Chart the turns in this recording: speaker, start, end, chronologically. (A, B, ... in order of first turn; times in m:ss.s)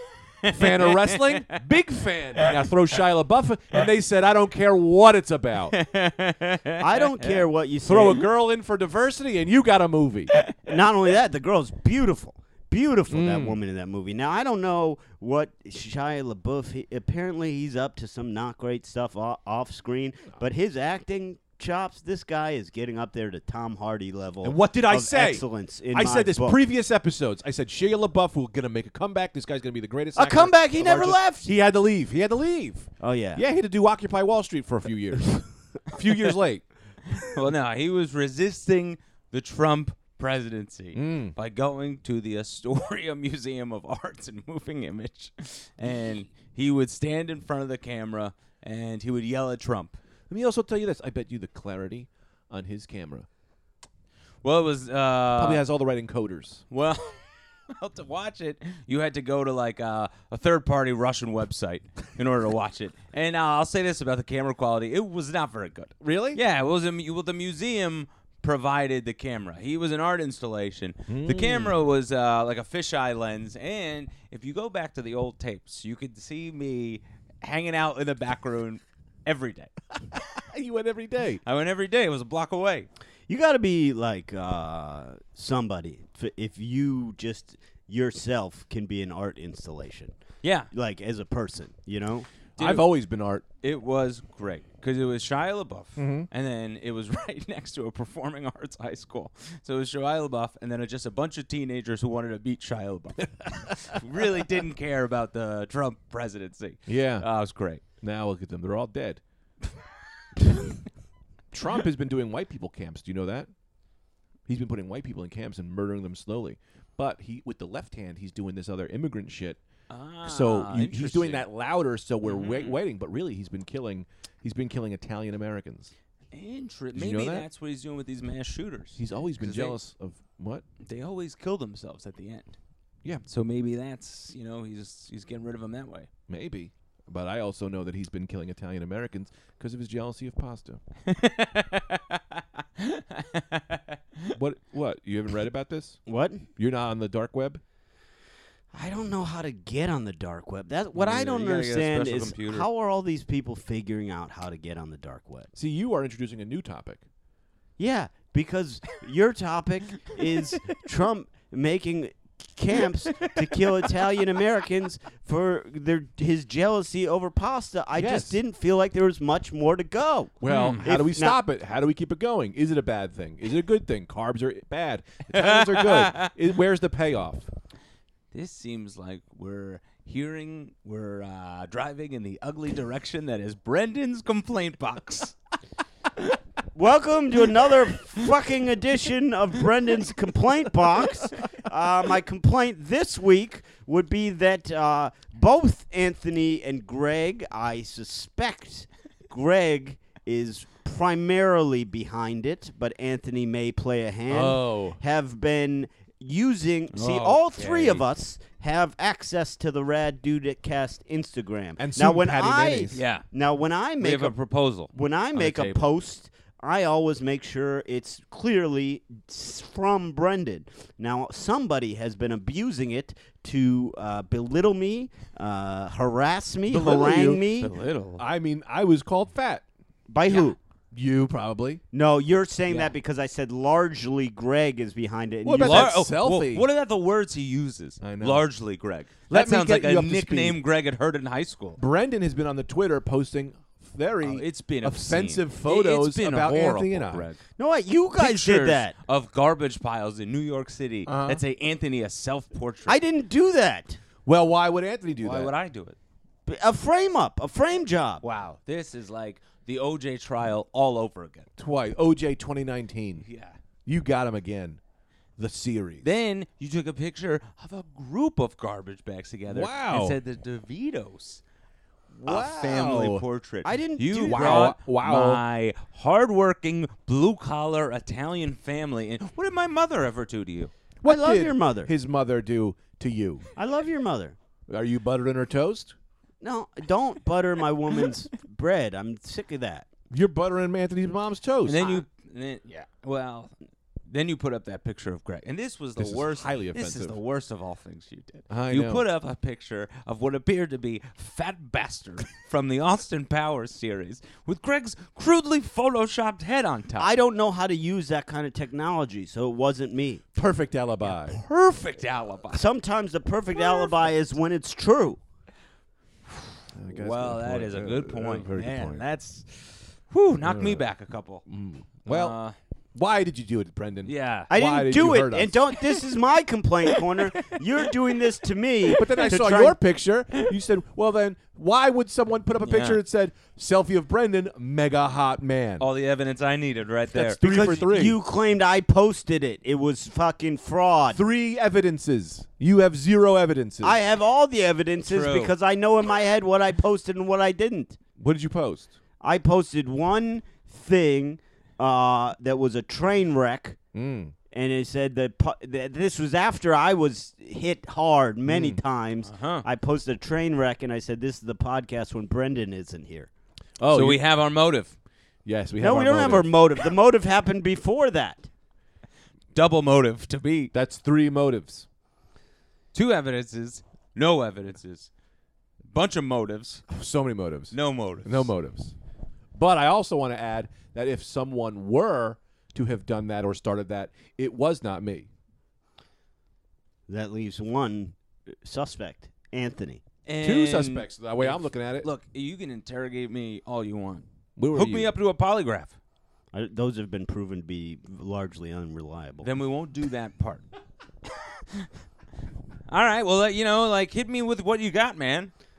0:00.4-0:01.6 A
0:00.4-0:05.8 B
0:05.7-0:07.4 A
0:06.8-0:08.2 C
0:07.8-0:10.3 B
0:10.6-0:26.6 C
0:13.1-0:13.6 B
0:24.4-0:36.7 B
0:30.2-0:31.5 C
0:33.0-0:33.4 C
0:37.1-0:50.0 A
0:40.9-0:41.3 B
0:50.3-0:53.3 B
0:54.4-0:55.6 A
0:55.4-0:56.6 B
0:56.7-1:19.7 A
1:06.0-1:06.4 B
1:11.1-1:11.8 B
1:20.3-1:21.4 B
1:21.4-1:22.9 A
1:23.3-1:30.1 C
1:30.4-1:30.7 A
1:30.7-1:32.3 C
1:32.6-1:32.9 A
1:32.6-1:33.4 B
1:33.6-1:47.8 A
1:36.0-1:36.3 B
1:46.8-1:47.3 B
1:48.0-1:49.2 B
1:51.5-1:53.5 B
1:54.5-1:59.6 B
1:59.9-2:01.4 A
2:00.2-2:05.9 B
2:02.2-2:02.8 A
2:06.3-2:09.8 A
2:06.9-2:07.4 B
2:09.0-2:10.6 B
2:10.8-2:12.6 A
2:13.2-2:16.1 A
2:16.3-2:20.8 B
2:21.1-2:24.4 A
2:24.3-2:26.0 B
2:26.0-2:26.5 C
2:26.6-2:27.6 B
2:28.7-2:35.5 C
2:30.9-2:32.7 A
2:35.5-2:37.0 B
2:37.8-2:51.4 C
2:47.9-2:48.4 B
2:50.4-2:57.5 B
2:50.5-2:50.8 A
2:55.3-2:56.3 A
2:58.3-3:05.4 A
3:06.7-3:34.3 C
3:24.3-3:25.0 B
3:26.9-3:28.0 A
3:31.8-3:33.0 B
3:32.9-3:33.2 A
3:34.0-3:35.9 A
3:34.9-3:47.7 C
3:46.7-3:47.5 B
3:47.5-3:48.2 A
3:48.2-3:49.7 B
3:50.1-3:50.6 C
3:50.9-3:51.8 B
3:51.9-3:56.0 C
3:55.4-3:56.7 B
3:55.6-4:01.8 A
3:58.0-3:58.4 B
3:59.3-4:00.6 B
4:01.8-4:07.3 B
4:04.2-4:07.4 A
4:07.6-4:08.9 C
4:08.2-4:13.0 A
4:11.0-4:11.4 B
4:12.9-4:14.0 C
4:14.2-4:15.5 B
4:15.2-4:16.0 A
4:16.4-4:18.2 C
4:18.2-4:21.5 A
4:21.6-4:23.2 B
4:23.2-4:23.6 A
4:23.8-4:24.8 B
4:25.4-4:26.1 B
4:26.0-4:31.4 A
4:29.5-4:30.2 B
4:32.2-4:33.2 B
4:32.2-4:40.7 A
4:33.6-4:34.7 C
4:34.2-4:35.4 B
4:41.0-4:43.5 B
4:41.0-4:41.9 C
4:43.6-4:44.4 C
4:44.7-4:45.9 B
4:46.4-4:49.9 C
4:50.1-4:52.0 B
4:51.6-4:53.5 A
4:54.1-5:07.1 A
4:56.0-4:57.2 B
4:58.5-4:59.0 B
5:07.0-5:10.2 C
5:10.3-5:11.4 B
5:11.0-5:12.6 A
5:12.5-5:15.2 C
5:16.7-5:19.0 B
5:16.9-5:21.4 A
5:20.4-5:20.8 B
5:21.4-5:22.3 B
5:22.0-5:22.6 A
5:22.9-5:25.6 B
5:24.0-5:24.5 A
5:24.5-5:29.8 C
5:28.9-5:35.9 B
5:32.6-5:33.0 A
5:35.8-5:37.4 A
5:37.1-5:38.2 B
5:37.4-5:41.2 C
5:41.1-5:44.0 B
5:43.8-5:48.0 C
5:45.0-5:45.5 A
5:48.2-5:48.9 B
5:49.2-5:53.8 C
5:53.9-5:54.3 B
5:54.5-6:03.3 C
5:58.5-5:58.8 B
5:59.2-5:59.6 A
6:03.8-6:04.2 B
6:03.9-6:04.9 A
6:05.4-6:06.5 B
6:05.8-6:08.5 C
6:09.5-6:10.7 A
6:10.7-6:11.9 B
6:12.9-6:15.1 A
6:15.9-6:16.8 A
6:16.9-6:18.9 B
6:17.7-6:18.5 A
6:19.5-6:25.3 B
6:27.1-6:30.0 C
6:30.2-6:36.0 A
6:30.4-6:32.1 B
6:34.6-6:35.1 B
6:36.5-6:39.5 C
6:39.4-6:40.6 A
6:41.4-6:41.9 A
6:42.9-6:45.5 A